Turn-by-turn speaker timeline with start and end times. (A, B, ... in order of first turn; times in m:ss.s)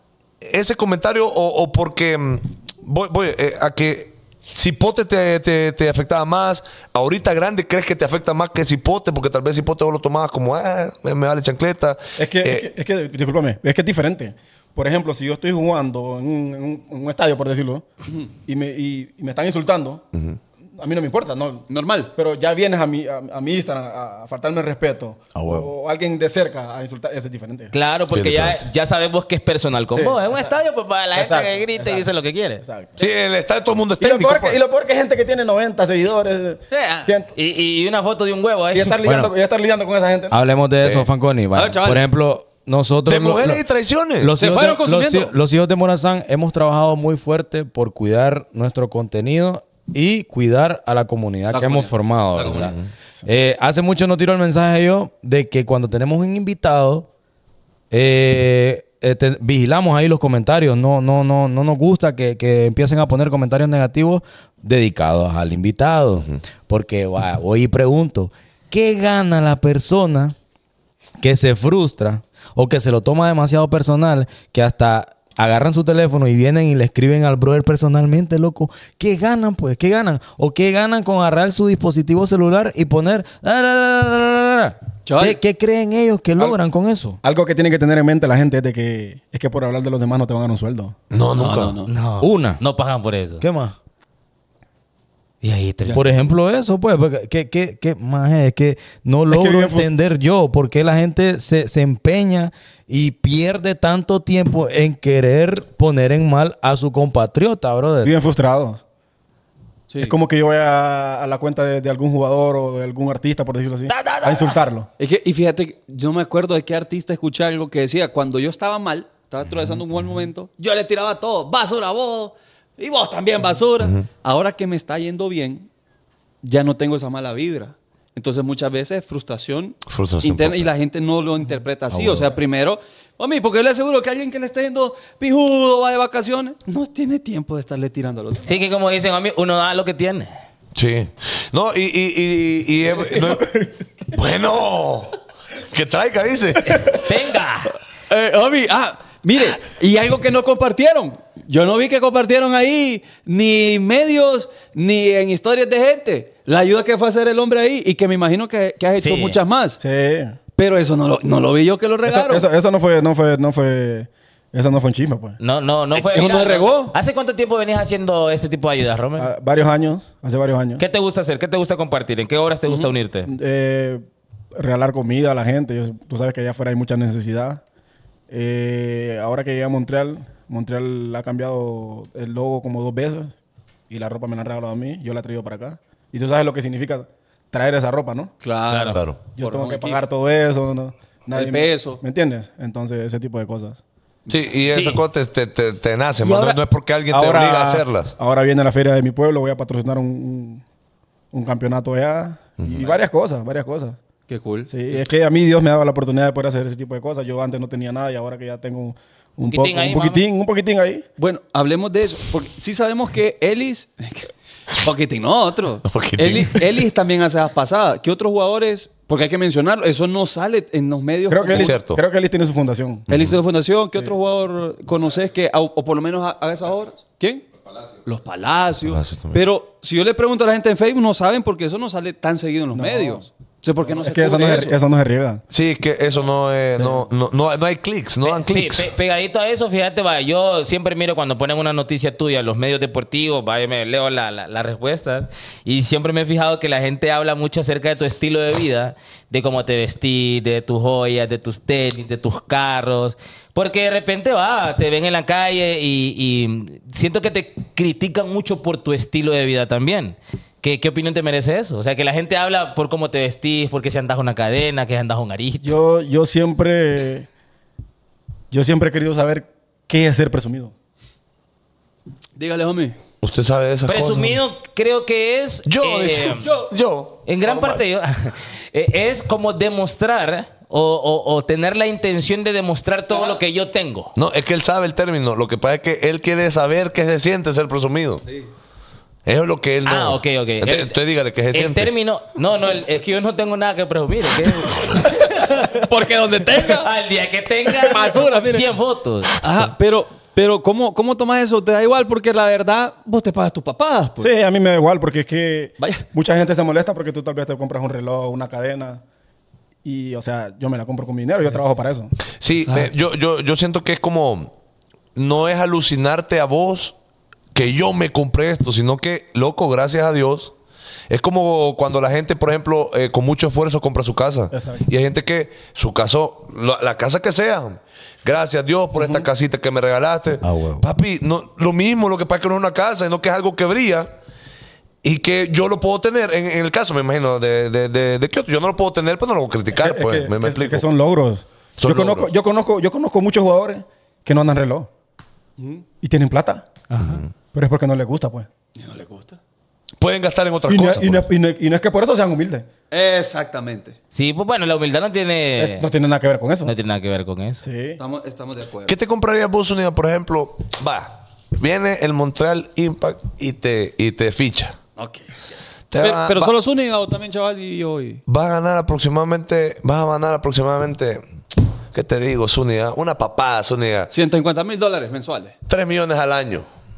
0:00.4-0:12.7 A
0:12.2-0:17.8 B
0:18.4-0:20.0 B
0:20.1-0:20.4 A
0:20.8-0:27.7 B
0:21.7-0:22.1 C
0:25.4-0:25.7 D
0:27.7-0:32.6 E
0:28.1-0:28.6 A
0:29.9-0:30.5 B
0:31.1-0:32.1 B
0:32.6-0:33.0 B
0:33.0-0:34.6 A
0:34.0-0:37.3 B
0:36.7-0:37.1 C
0:37.4-0:39.0 E
0:38.7-0:40.4 B
0:39.0-0:39.3 D
0:40.3-0:43.6 D
0:40.8-0:41.1 A
0:41.5-0:42.0 C
0:43.1-0:44.3 A
0:44.2-0:57.1 D
0:44.4-0:45.3 C
0:51.5-0:52.7 C
0:52.4-0:52.8 A
0:57.9-1:10.4 D
1:11.2-1:27.2 D
1:25.1-1:25.4 C
1:27.2-1:31.0 B
1:31.1-1:31.8 A
1:31.4-1:31.9 C
1:31.9-1:33.4 E
1:32.2-1:32.6 D
1:33.4-1:33.8 D
1:35.4-1:36.0 E
1:35.9-1:48.2 D
1:39.3-1:39.9 B
1:48.0-1:48.8 B
1:49.9-1:50.2 C
1:50.0-1:54.9 B
1:53.9-1:54.6 E
1:55.0-2:05.7 C
2:06.4-2:18.6 C
2:09.9-2:10.7 A
2:11.9-2:12.3 D
2:18.5-2:20.3 E
2:20.8-2:23.6 A
2:24.1-2:25.2 A
2:25.7-2:27.0 A
2:26.7-2:27.8 E
2:28.1-2:39.8 C
2:39.0-2:39.4 E
2:39.8-2:40.4 B
2:40.6-2:42.5 C
2:42.0-2:45.4 B
2:45.4-2:49.3 E
2:45.9-2:47.0 C
2:49.2-2:50.8 B
2:50.8-2:53.3 E
2:53.3-2:54.0 B
2:54.6-2:57.6 B
2:58.3-3:03.3 B
3:03.9-3:08.3 B
3:08.4-3:10.0 C
3:08.7-3:09.0 E
3:09.4-3:13.8 B
3:11.3-3:12.0 C
3:14.3-3:18.2 A
3:14.7-3:15.0 E
3:16.2-3:16.6 C
3:17.1-3:20.6 B
3:21.3-3:24.0 B
3:22.6-3:22.9 A
3:24.3-3:25.0 C
3:24.7-3:31.0 B
3:29.5-3:30.2 E
3:31.2-3:41.8 C
3:35.9-3:36.7 A
3:41.3-3:43.1 B
3:41.5-3:42.0 A
3:43.1-3:43.4 A
3:43.1-3:47.4 C
3:48.0-3:54.8 C
3:48.9-3:49.4 A
3:52.7-3:53.2 B
3:53.9-3:55.4 B
3:55.5-3:58.9 A
3:58.2-4:25.8 E
4:25.6-4:27.3 B
4:28.5-4:30.7 B
4:32.4-4:33.0 C
4:33.2-4:34.4 A
4:33.9-4:36.5 E
4:35.7-4:37.8 A
4:36.4-4:36.7 C
4:37.3-4:44.1 E
4:43.1-4:43.4 C
4:44.2-4:48.2 A
4:48.3-4:48.5 C
4:49.3-4:51.9 A
4:49.9-4:51.0 E
4:51.5-4:55.8 E
4:55.7-4:56.9 C
4:56.6-4:59.3 E
4:57.8-4:58.7 C
4:59.4-5:04.3 C
5:04.2-5:09.0 B
5:05.8-5:06.0 C
5:09.8-5:12.1 B
5:12.4-5:14.5 A
5:15.2-5:17.0 A
5:17.5-5:20.5 A
5:21.1-5:34.1 A
5:24.5-5:24.8 B
5:29.0-5:29.3 B
5:30.4-5:30.8 D
5:35.0-5:40.9 A
5:39.8-5:44.9 B
5:41.8-5:42.3 A
5:45.6-5:45.8 C
5:46.0-5:46.7 B
5:46.9-5:47.2 E
5:47.0-5:47.3 A
5:47.5-5:48.5 B
5:48.8-5:49.4 C
5:50.0-5:51.3 A
5:50.7-5:52.7 B
5:52.9-5:54.0 C
5:54.1-5:55.8 E
5:55.6-5:56.7 B
5:56.6-5:57.6 E
5:57.6-5:58.0 B
5:58.0-5:59.0 C
5:58.9-6:04.8 A
6:05.0-6:05.4 C
6:05.9-6:06.6 A
6:06.0-6:08.2 C
6:08.3-6:11.3 A
6:11.9-6:14.1 A
6:14.1-6:15.6 C
6:15.7-6:16.7 A